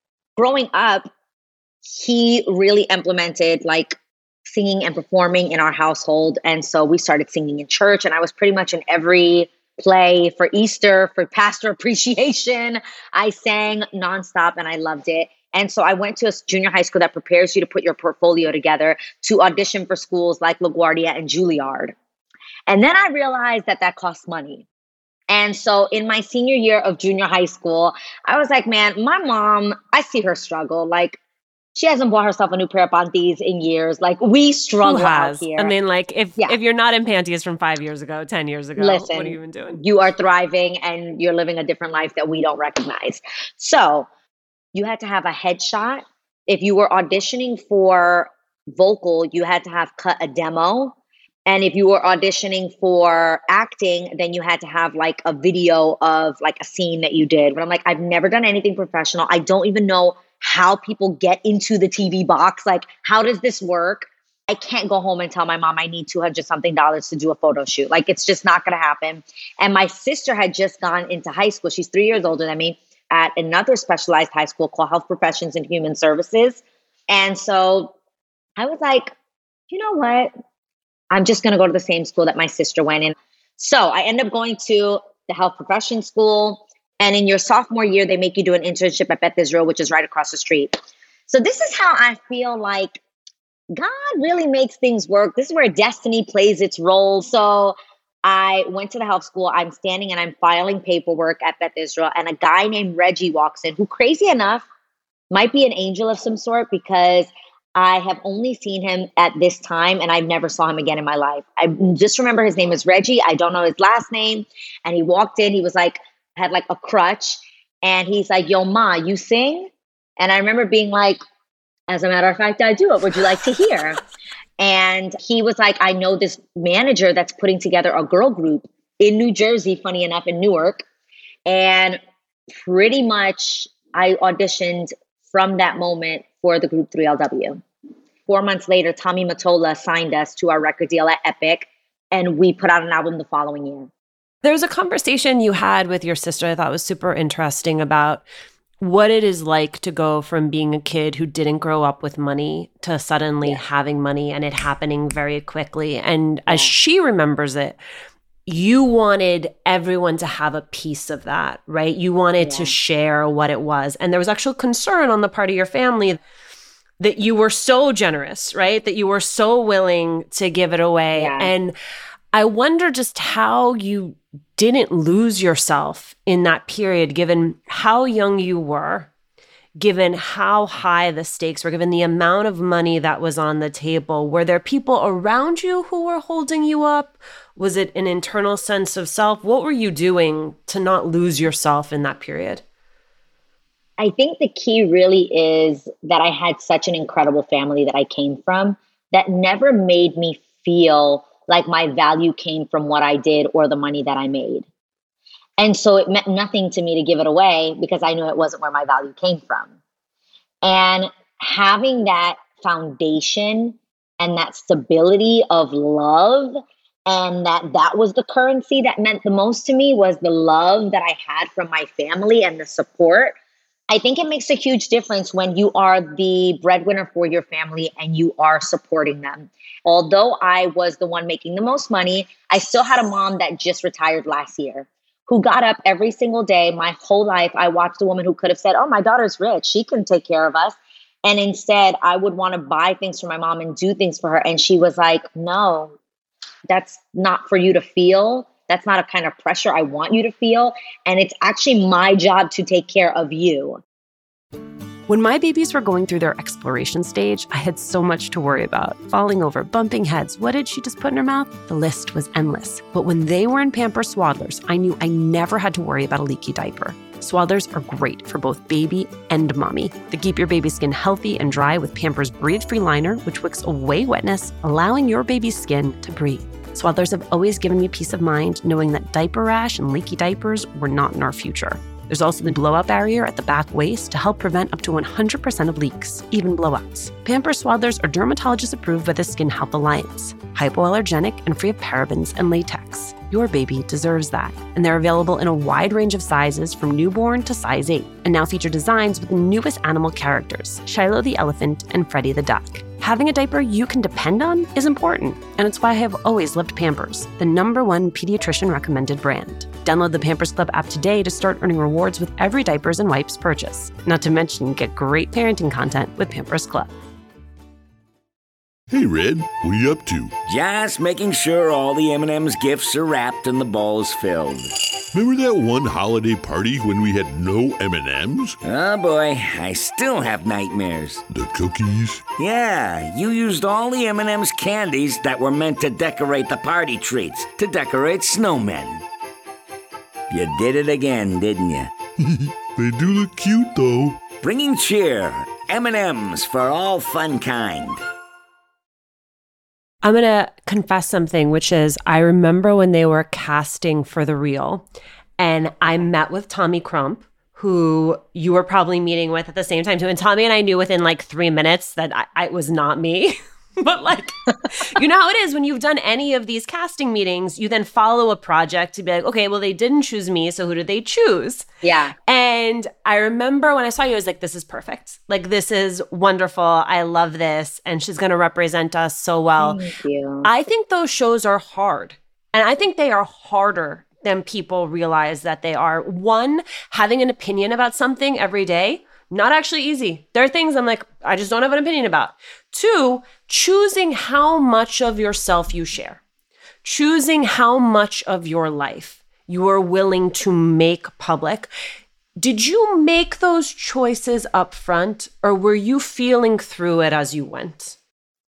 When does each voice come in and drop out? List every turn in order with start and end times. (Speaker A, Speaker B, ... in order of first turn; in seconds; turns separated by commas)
Speaker A: 0.4-1.1, Speaker A: 1.8-21.9, Speaker A: 22.7-24.7, Speaker A: 25.3-31.2, Speaker A: 31.8-35.7, Speaker B: 34.8-39.8, Speaker A: 38.8-44.1, Speaker A: 44.7-50.9, Speaker A: 51.5-77.9, Speaker A: 78.6-79.1, Speaker A: 79.7-80.3, Speaker A: 81.1-90.8, Speaker A: 91.3-93.0, Speaker A: 93.7-104.6, Speaker A: 105.3-121.2, Speaker A: 121.9-124.0, Speaker A: 124.6-130.8, Speaker A: 131.4-132.0, Speaker A: 132.6-137.6, Speaker A: 138.3-143.9, Speaker B: 144.4-148.2, Speaker B: 148.8-157.8, Speaker A: 156.5-156.7, Speaker B: 158.5-166.2, Speaker A: 162.4-162.8, Speaker B: 167.0-171.7, Speaker A: 171.1-171.5, Speaker B: 172.3-179.1, Speaker B: 179.8-192.6, Speaker A: 194.0-204.7, Speaker A: 205.6-209.7, Speaker A: 210.6-223.4, Speaker A: 223.9-245.9, Speaker A: 246.7-253.8, Speaker B: 255.1-316.9, Speaker C: 318.9-320.3, Speaker D: 320.5-324.7, Speaker C: 325.1-328.6, Speaker D: 328.6-331.2, Speaker C: 331.3-332.2, Speaker D: 332.4-339.0, Speaker D: 340.3-341.9, Speaker C: 342.2-344.2, Speaker D: 344.4-348.0, Speaker B: 350.0-354.8, Speaker B: 355.4-363.3, Speaker B: 363.8-364.3, Speaker B: 365.0-371.6, Speaker A: 371.8-372.1, Speaker B: 372.3-379.8, Speaker A: 379.6-380.5, Speaker B: 380.5-396.2, Speaker B: 396.9-401.7, Speaker B: 402.4-407.9